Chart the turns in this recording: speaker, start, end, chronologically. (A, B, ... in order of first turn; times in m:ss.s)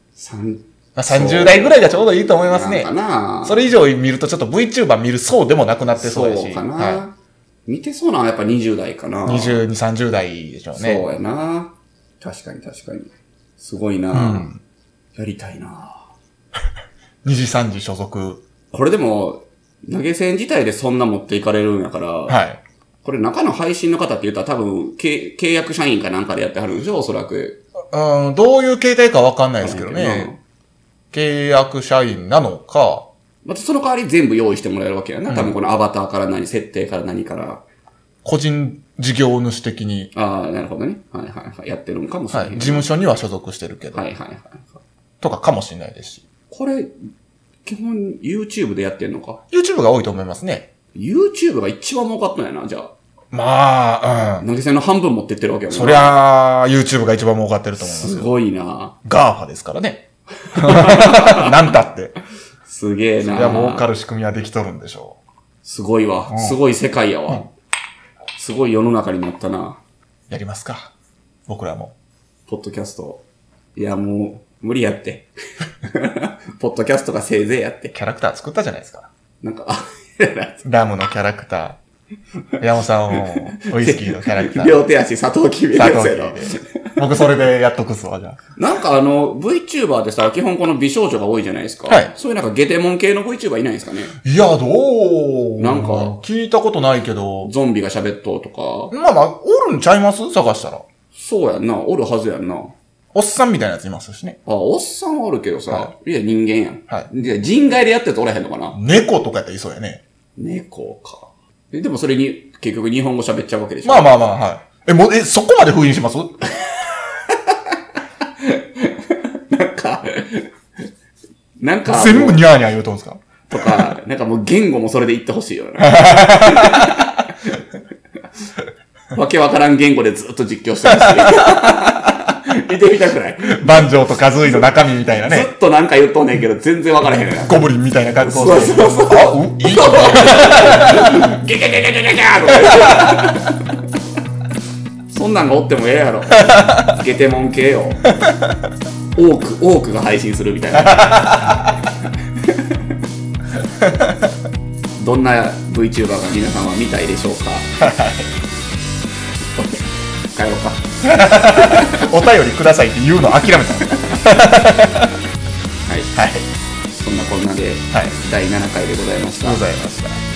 0:00.1-0:03.7 A
0:01.0-0:02.9 B
0:03.4-0:07.0 B
0:06.0-0:09.6 A
0:09.2-0:11.1 B
0:10.7-0:14.5 A
0:14.1-0:14.6 B
0:15.1-0:16.1 A
0:17.2-0:18.4 B
0:18.7-0:22.4 A
0:22.3-0:22.6 B
0:23.0-0:27.6 A
0:27.9-0:30.3 B
0:29.6-0:30.4 A
0:31.1-0:33.1 B
0:33.4-0:37.6 A
0:35.3-0:35.5 B
0:38.2-0:40.1 B
0:40.1-0:42.9 A
0:42.3-0:44.0 B
0:43.9-0:44.8 A
0:45.2-0:46.2 B
0:46.5-0:46.9 A
0:47.6-0:49.4 A
0:49.5-0:50.7 B
0:50.9-0:52.9 A
0:53.3-0:54.4 B
0:54.4-0:56.2 A
0:55.7-0:58.3 B
0:57.8-0:59.0 A
0:59.0-1:02.2 B
1:00.4-1:01.7 A
1:02.6-1:03.8 A
1:03.2-1:05.2 B
1:05.6-1:07.5 A
1:06.3-1:06.6 B
1:08.4-1:09.8 A
1:10.3-1:10.9 B
1:11.5-1:11.9 B
1:12.5-1:15.3 A
1:15.8-1:17.9 A
1:17.9-1:19.1 B
1:19.4-1:20.6 A
1:20.6-1:21.8 B
1:22.6-1:24.8 B
1:23.1-1:27.0 A
1:25.7-1:28.4 B
1:28.6-1:34.2 A
1:34.2-1:37.5 B
1:35.6-1:36.1 A
1:37.4-1:38.9 A
1:38.9-1:40.8 B
1:41.1-1:42.7 A
1:43.1-1:44.4 B
1:44.4-1:48.8 A
1:48.7-1:50.0 B
1:50.4-1:54.2 A
1:53.8-1:56.5 B
1:56.8-2:00.5 A
2:01.6-2:02.4 A
2:01.8-2:03.7 B
2:03.5-2:07.6 A
2:05.8-2:07.3 B
2:09.1-2:13.9 A
2:10.9-2:11.6 B
2:13.5-2:15.5 B
2:15.2-2:17.6 A
2:17.1-2:21.3 B
2:18.2-2:23.7 A
2:22.7-2:23.2 B
2:25.1-2:28.0 A
2:26.5-2:26.9 B
2:28.1-2:28.6 B
2:29.1-2:31.6 A
2:30.8-2:31.8 B
2:32.3-2:33.0 A
2:33.8-2:34.1 B
2:35.0-2:37.7 A
2:37.8-2:38.3 B
2:39.6-2:42.2 A
2:41.0-2:45.2 B
2:45.8-2:46.1 A
2:46.1-2:46.5 B
2:46.9-2:49.7 A
2:49.4-2:50.2 B